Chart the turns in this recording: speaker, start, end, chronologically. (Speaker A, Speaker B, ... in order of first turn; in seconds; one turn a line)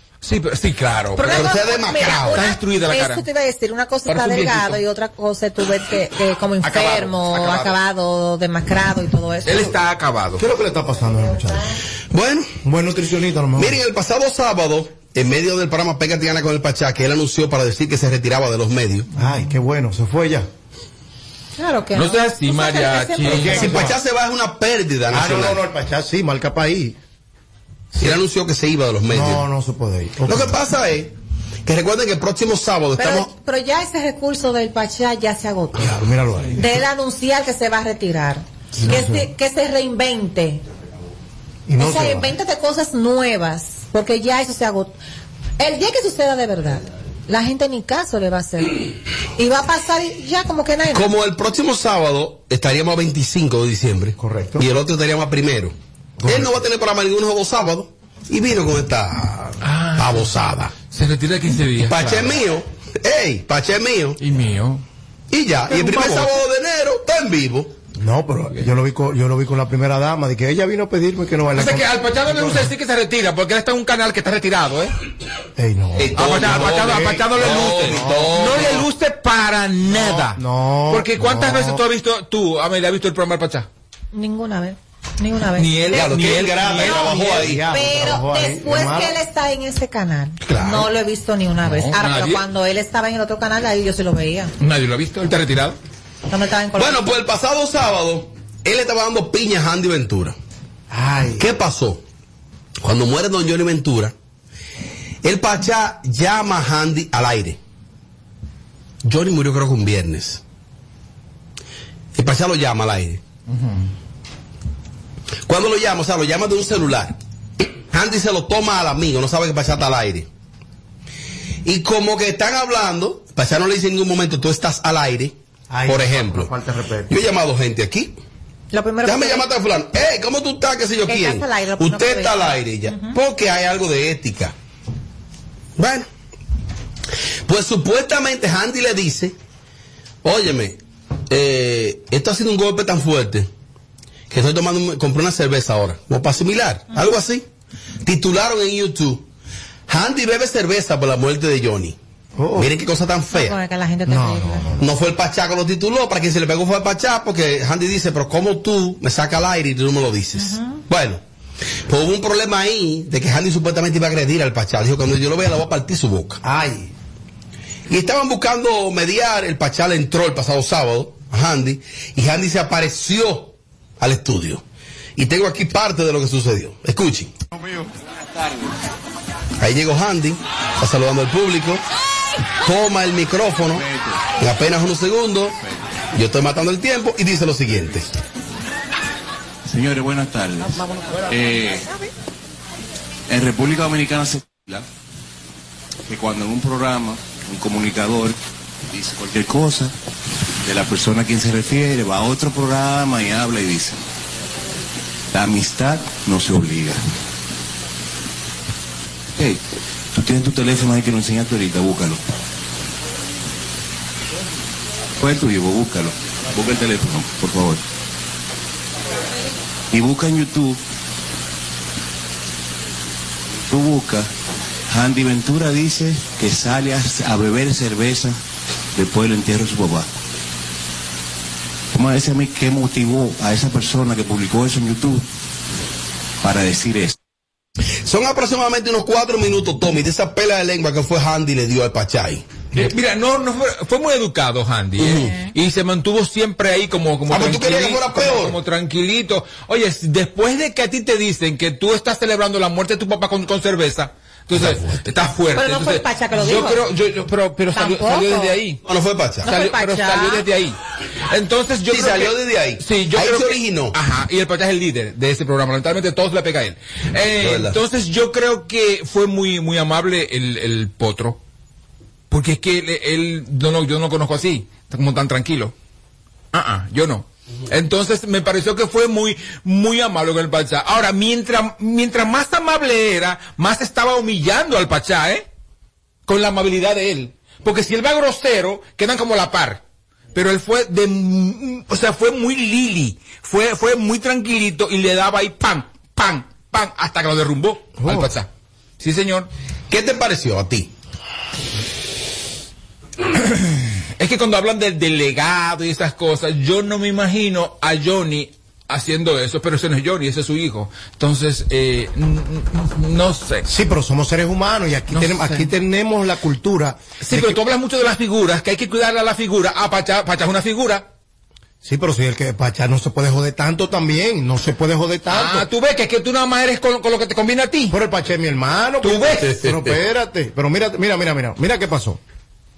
Speaker A: 0.2-1.6
Speaker B: 1.2-9.7
Speaker C: 1.3-2.5
Speaker A: 2.3-3.2
Speaker A: 4.1-4.8
Speaker A: 6.6-7.8
Speaker A: 9.4-10.4
Speaker D: 10.4-11.7
Speaker B: 11.3-11.6
Speaker C: 12.1-12.5
Speaker D: 12.6-13.8
Speaker C: 13.6-19.1
Speaker D: 19.1-20.5
Speaker B: 21.6-23.8
Speaker A: 21.9-23.9
Speaker D: 23.2-24.0
Speaker C: 23.3-25.6
Speaker D: 25.1-27.0
Speaker C: 27.9-29.4
Speaker D: 29.1-30.6
Speaker C: 30.2-31.1
Speaker C: 31.6-33.3
Speaker B: 33.0-35.9
Speaker D: 35.8-36.7
Speaker B: 36.5-40.6
Speaker D: 38.7-39.3
Speaker D: 41.7-42.3
Speaker B: 41.8-45.0
Speaker B: 45.6-51.1
Speaker C: 50.9-55.7
Speaker D: 54.2-54.6
Speaker D: 56.2-56.5
Speaker C: 56.2-60.7
Speaker A: 59.6-60.3
Speaker A: 60.9-62.4
Speaker C: 61.8-64.2
Speaker A: 64.2-64.8
Speaker C: 65.3-67.7
Speaker A: 65.7-66.3
Speaker D: 68.0-72.7
Speaker A: 71.5-74.9
Speaker D: 75.6-78.5
Speaker A: 76.0-83.7
Speaker C: 76.2-78.9
Speaker D: 79.8-81.8
Speaker B: 84.1-86.1
Speaker A: 85.5-87.6
Speaker C: 85.9-87.6
Speaker D: 86.8-89.2
Speaker B: 86.9-94.5
Speaker C: 90.4-90.9
Speaker A: 91.6-92.4
Speaker A: 94.6-95.8
Speaker B: 96.3-97.1
Speaker C: 96.7-100.3
Speaker D: 100.9-101.5
Speaker C: 101.4-102.0
Speaker C: 102.8-104.1
Speaker C: 105.2-107.6
Speaker C: 109.0-110.4
Speaker C: 112.1-113.2
Speaker A: 113.5-113.8
Speaker C: 115.5-117.2
Speaker C: 117.9-120.3
Speaker C: 121.7-125.3
Speaker D: 125.7-127.2
Speaker C: 125.8-126.5
Speaker C: 127.1-128.1
Speaker B: 128.7-129.5
Speaker C: 129.0-134.5
Speaker B: 131.1-133.2
Speaker C: 135.8-136.1
Speaker C: 137.4-139.3
Speaker C: 140.2-140.8
Speaker C: 141.3-143.5
Speaker C: 144.3-147.4
Speaker C: 148.0-149.2
Speaker C: 149.9-152.0
Speaker D: 152.3-152.7
Speaker C: 152.6-153.6
Speaker B: 153.3-154.7
Speaker D: 154.1-154.9
Speaker C: 154.8-161.2
Speaker B: 160.4-160.8
Speaker C: 161.9-166.4
Speaker D: 166.4-166.9
Speaker C: 167.9-174.6
Speaker C: 175.2-177.3
Speaker C: 179.6-181.8
Speaker C: 182.6-183.8
Speaker E: 183.8-184.2
Speaker C: 184.4-185.5
Speaker C: 186.1-188.1
Speaker E: 189.6-191.9
Speaker E: 193.3-194.8
Speaker E: 196.1-198.4
Speaker E: 198.9-199.9
Speaker E: 200.6-204.0
Speaker E: 205.3-207.0
Speaker E: 210.2-212.2
Speaker E: 215.2-217.8
Speaker E: 219.9-220.8
Speaker E: 223.7-224.3
Speaker E: 224.9-228.4
Speaker E: 228.9-230.1
Speaker E: 231.9-235.2
Speaker E: 236.4-237.1
Speaker C: 238.0-242.5
Speaker A: 242.7-258.8
Speaker C: 245.0-245.4
Speaker C: 247.3-248.6
Speaker C: 254.5-255.0
Speaker B: 255.5-256.9
Speaker B: 257.7-258.6
Speaker C: 258.9-259.5
Speaker B: 259.4-260.4
Speaker A: 259.5-260.8
Speaker A: 261.3-271.4
Speaker C: 261.9-263.9
Speaker C: 267.4-267.8
Speaker A: 272.3-275.7
Speaker A: 276.5-285.4
Speaker A: 286.2-289.8
Speaker A: 290.3-298.5
Speaker D: 298.0-298.3
Speaker A: 299.0-299.5
Speaker C: 299.9-300.9
Speaker A: 303.4-313.6
Speaker D: 313.7-317.6
Speaker A: 315.1-315.7
Speaker A: 317.2-321.1
Speaker D: 321.8-325.7
Speaker A: 325.3-328.0
Speaker D: 327.9-332.2
Speaker A: 329.0-329.5
Speaker C: 329.4-329.9